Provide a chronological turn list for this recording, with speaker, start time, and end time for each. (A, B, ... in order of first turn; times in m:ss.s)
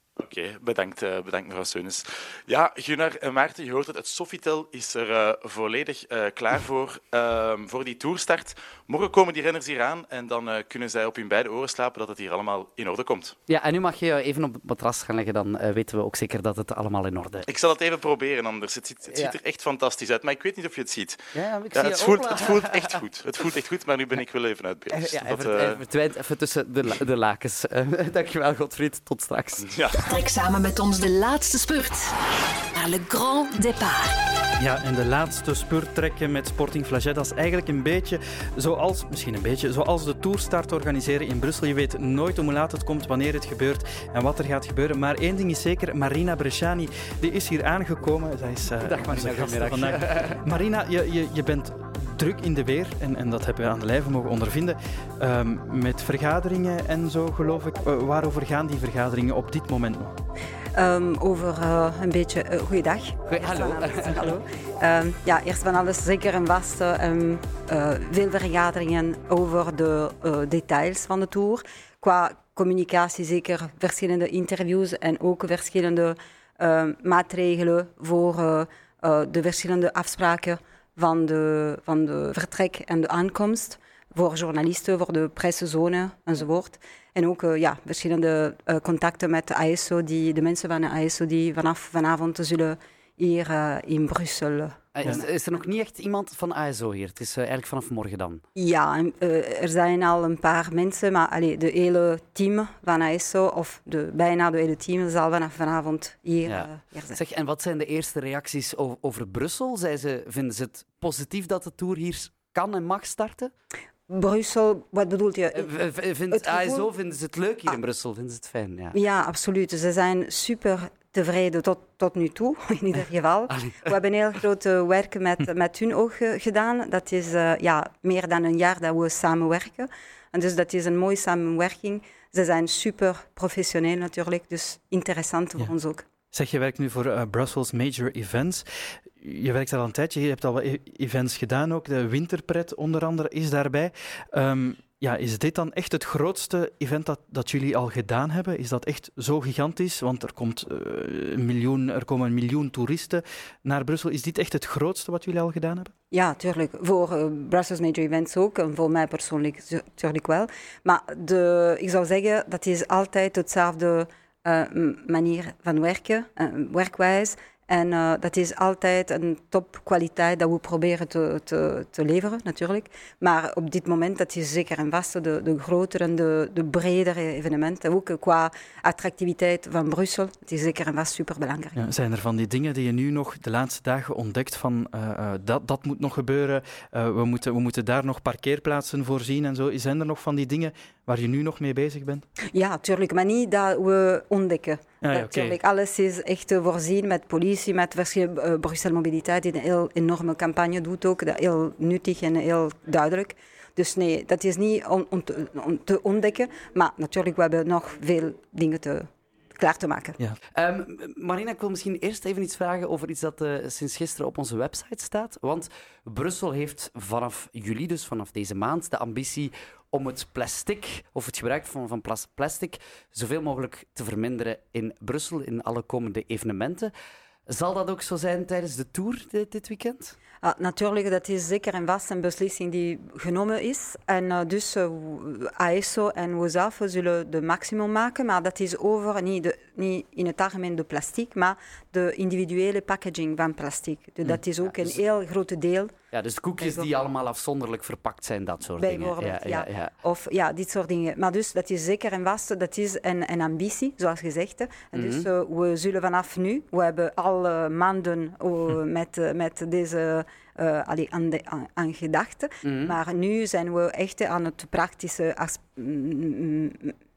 0:00.2-0:13.4 A
0:13.5-0:17.6 B
0:17.5-0:25.7 A
0:19.0-0:19.4 B
0:21.3-0:23.0 B
0:24.9-0:29.8 B
0:29.7-0:30.1 A
0:29.9-0:32.1 C
0:32.7-0:34.1 C
0:34.6-1:00.1 D
0:48.8-0:50.4 B
1:00.7-1:35.1 E
1:03.3-1:04.4 B
1:34.9-1:38.4 B
1:38.6-1:47.2 E
1:46.4-1:53.5 B
1:54.1-1:55.7 E
1:55.5-1:59.0 B
1:56.3-1:56.9 E
1:58.9-2:16.0 E
2:03.5-2:03.9 B
2:16.3-2:18.6 D
2:19.2-2:35.9 D
2:36.1-3:01.8 E
3:01.7-3:12.2 D
3:12.5-3:30.2 E
3:15.0-3:15.6 D
3:30.5-3:46.9 B
3:47.5-3:50.1 B
3:50.4-4:06.0 E
4:04.2-4:05.0 B
4:06.1-4:09.9 B
4:06.6-4:06.9 E
4:08.8-4:26.9 E
4:14.9-4:15.3 B
4:22.6-4:23.0 B